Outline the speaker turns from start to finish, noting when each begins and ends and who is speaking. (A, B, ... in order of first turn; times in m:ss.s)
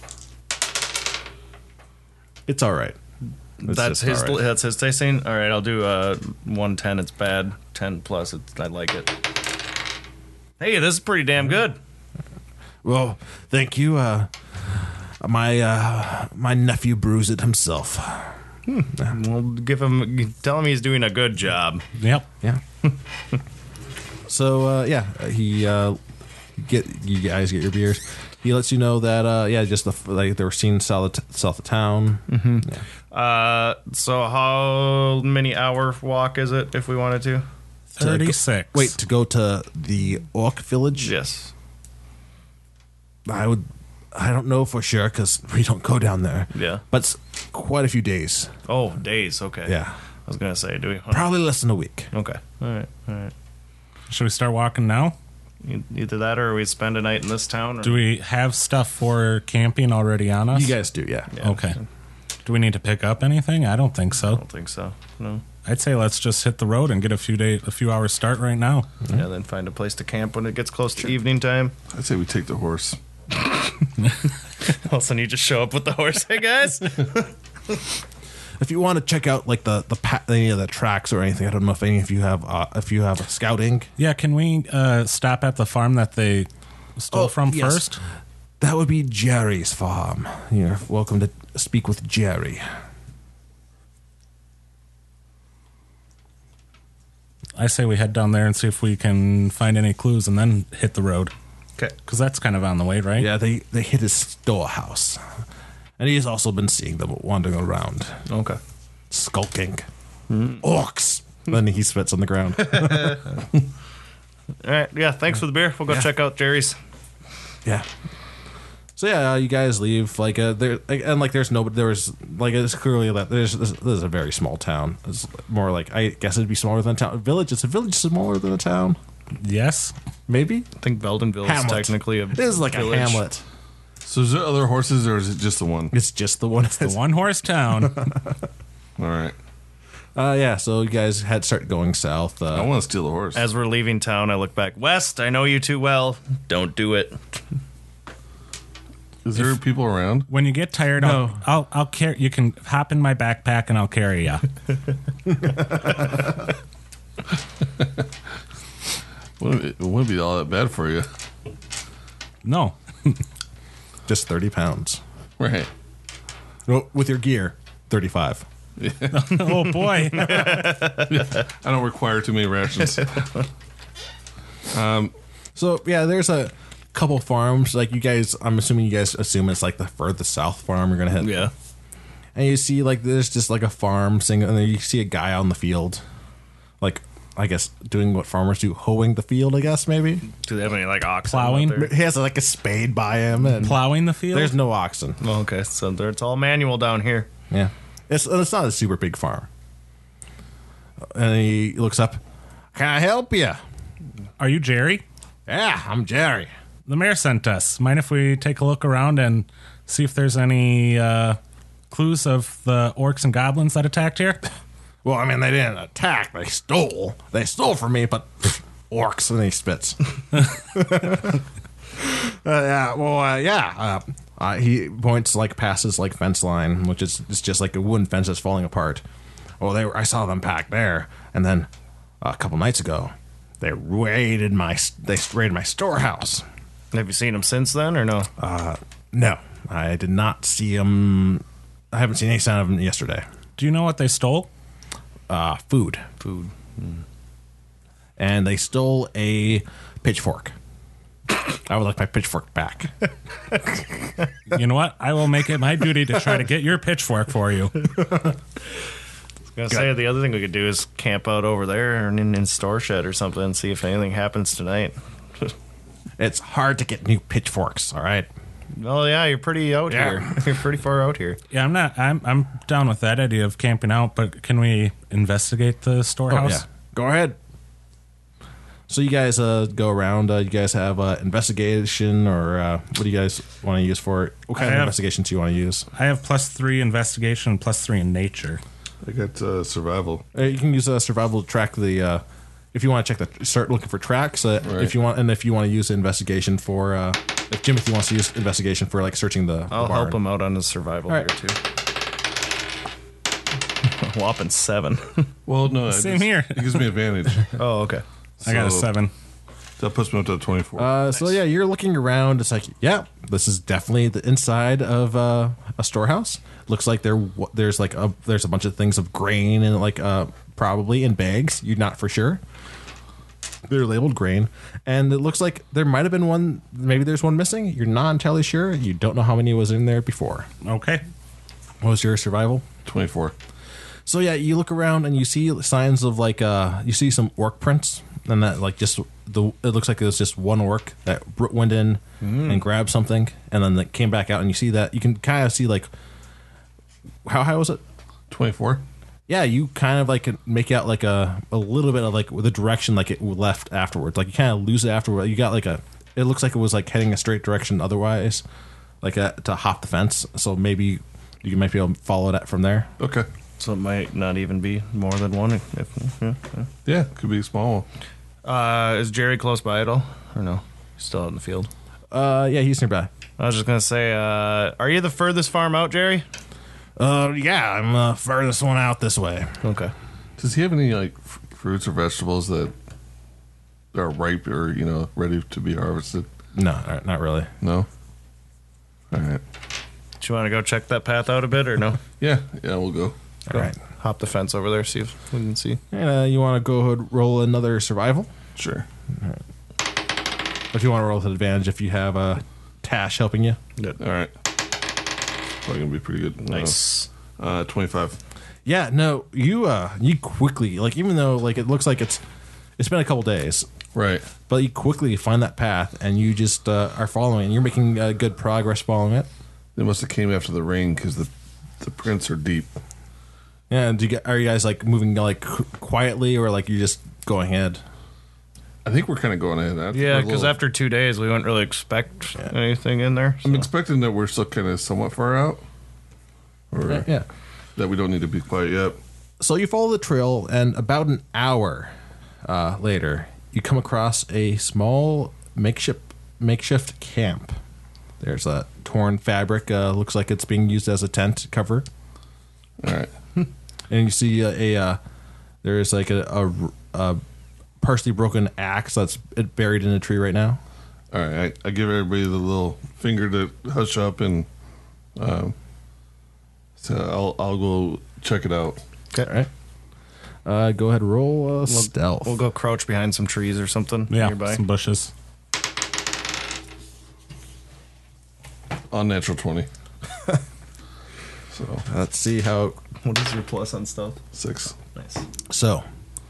0:02.5-0:03.0 A
0:03.6-0:09.2 B
0:03.6-0:04.4 A
0:10.6-0:11.8 B
0:12.8-0:14.3 A
0:15.2-0:18.4 A
0:18.7-0:21.8 B
0:22.0-0:22.3 C
0:24.3-0:26.0 A
0:26.6-0:32.8 A
0:32.3-0:37.4 B
0:37.9-0:39.0 C
0:38.0-0:41.1 A
0:41.0-0:41.5 B
0:43.3-0:48.5 A
0:46.5-0:46.8 B
0:48.7-0:49.8 B
0:49.7-0:49.9 A
0:50.3-0:51.3 B
0:51.1-0:52.1 A
0:52.1-0:53.3 B
0:54.1-0:55.2 C
0:55.6-0:58.0 B
0:57.8-1:00.8 C
1:00.5-1:01.3 A
1:01.3-1:01.8 B
1:01.4-1:01.8 C
1:02.4-1:04.4 C
1:04.2-1:05.4 B
1:05.6-1:08.9 C
1:09.1-1:11.8 B
1:11.9-1:13.0 D
1:13.7-1:17.3 B
1:18.6-1:23.9 A
1:24.0-1:28.0 C
1:27.1-1:27.9 A
1:28.6-1:32.6 A
1:37.6-1:41.3 C
1:42.1-1:43.3 C
1:43.2-1:45.2 A
1:46.0-1:48.2 A
1:48.3-1:48.6 B
1:49.1-1:49.9 A
1:50.3-1:50.6 B
1:50.6-1:53.3 A
1:52.6-1:53.3 B
1:54.6-1:56.8 B
1:59.0-2:09.0 A
2:09.4-2:09.9 C
2:10.3-2:10.7 A
2:10.8-2:13.2 B
2:11.4-2:13.4 A
2:14.0-2:15.9 D
2:15.9-2:17.0 A
2:16.8-2:18.1 C
2:17.7-2:18.3 A
2:19.0-2:19.4 D
2:20.2-2:22.7 A
2:22.5-2:23.4 D
2:23.4-2:27.4 B
2:29.2-2:30.3 D
2:30.3-2:34.5 C
2:31.0-2:31.4 A
2:35.4-2:36.1 A
2:37.8-2:38.0 D
2:39.4-2:41.1 D
2:42.4-2:43.2 C
2:44.1-2:45.0 A
2:45.4-2:45.7 D
2:46.7-2:48.4 A
2:48.8-2:49.8 D
2:49.1-2:50.9 C
2:50.1-2:51.2 B
2:50.9-2:53.3 D
2:54.7-2:55.1 D
2:55.6-3:01.5 A
3:01.2-3:01.5 B
3:02.4-3:06.0 A
3:06.8-3:10.3 A
3:10.3-3:11.9 B
3:11.2-3:11.8 C
3:11.8-3:15.2 A
3:13.6-3:14.6 C
3:15.2-3:17.3 B
3:17.5-3:19.5 A
3:21.1-3:22.2 A
3:22.7-3:23.6 A
3:24.4-3:25.0 C
3:25.5-3:26.5 A
3:26.9-3:31.4 C
3:31.9-3:34.4 C
3:35.0-3:41.4 A
3:42.0-3:49.0 A
3:49.6-3:51.7 A
3:52.2-3:56.4 A
3:56.9-3:58.3 B
3:58.4-4:03.2 A
4:03.6-4:04.5 C
4:05.3-4:06.0 A
4:06.2-4:07.0 B
4:08.2-4:10.5 A
4:11.6-4:12.9 A
4:14.5-4:17.9 C
4:19.6-4:25.5 B
4:26.2-4:28.3 A
4:28.8-4:31.4 B
4:29.9-4:30.3 A
4:31.5-4:36.6 C
4:36.3-4:37.4 A
4:38.9-4:45.9 A
4:44.6-4:45.0 C
4:45.9-4:48.6 C
4:49.0-4:50.3 D
4:50.3-4:52.2 A
4:52.7-5:00.2 A
4:54.6-4:54.9 D
4:59.7-5:01.6 B
5:03.8-5:05.3 B
5:05.5-5:07.6 D
5:05.8-5:06.9 C
5:07.6-5:08.0 B
5:08.4-5:08.9 D
5:08.4-5:09.1 C
5:09.8-5:10.9 D
5:10.8-5:22.4 A
5:23.7-5:30.5 A
5:30.6-5:31.0 C
5:31.8-5:32.6 A
5:32.8-5:33.3 D
5:34.1-5:45.9 A
5:42.2-5:42.6 B
5:47.2-5:47.8 A
5:48.3-5:48.8 D
5:49.3-5:58.4 A
5:59.0-6:02.9 A
6:03.0-6:03.3 D
6:03.6-6:06.7 B
6:06.9-6:07.9 D
6:08.4-6:11.7 B
6:12.1-6:13.1 A
6:13.4-6:16.2 B
6:17.0-6:19.6 A
6:19.6-6:19.9 B
6:20.4-6:22.7 D
6:23.9-6:26.3 D
6:26.6-6:27.5 A
6:27.6-6:27.9 D
6:29.1-6:29.4 D
6:30.2-6:32.0 B
6:32.2-6:33.2 D
6:33.5-6:35.8 B
6:33.5-6:33.8 A
6:35.9-6:38.3 A
6:38.6-6:38.9 D
6:40.7-6:43.6 A
6:44.0-6:44.3 D
6:45.6-6:46.8 D
6:46.4-6:47.1 B
6:47.4-6:48.2 D
6:48.6-6:52.2 A
6:52.8-6:53.7 A
6:54.0-6:54.3 D
6:54.5-6:59.3 A
6:59.8-7:02.7 D
7:03.7-7:07.8 A
7:08.8-7:10.6 D
7:09.9-7:13.7 B
7:13.4-7:15.6 D
7:16.7-7:17.1 D
7:16.9-7:17.3 A
7:17.8-7:19.0 D
7:19.4-7:21.9 A
7:22.4-7:27.6 A
7:28.2-7:31.9 A
7:32.8-7:33.1 D
7:33.9-7:35.0 A
7:35.6-7:37.2 A
7:37.8-7:40.6 A
7:41.1-7:44.5 D
7:45.2-7:45.6 D
7:46.8-7:48.8 D
7:49.2-7:49.5 A
7:50.4-7:52.4 A
7:51.7-7:54.6 B
7:54.1-7:55.1 C
7:58.9-7:59.7 D
8:01.5-8:01.8 D
8:01.9-8:02.8 A
8:03.0-8:04.2 B
8:04.3-8:04.8 D
8:05.0-8:05.3 B
8:05.5-8:05.8 A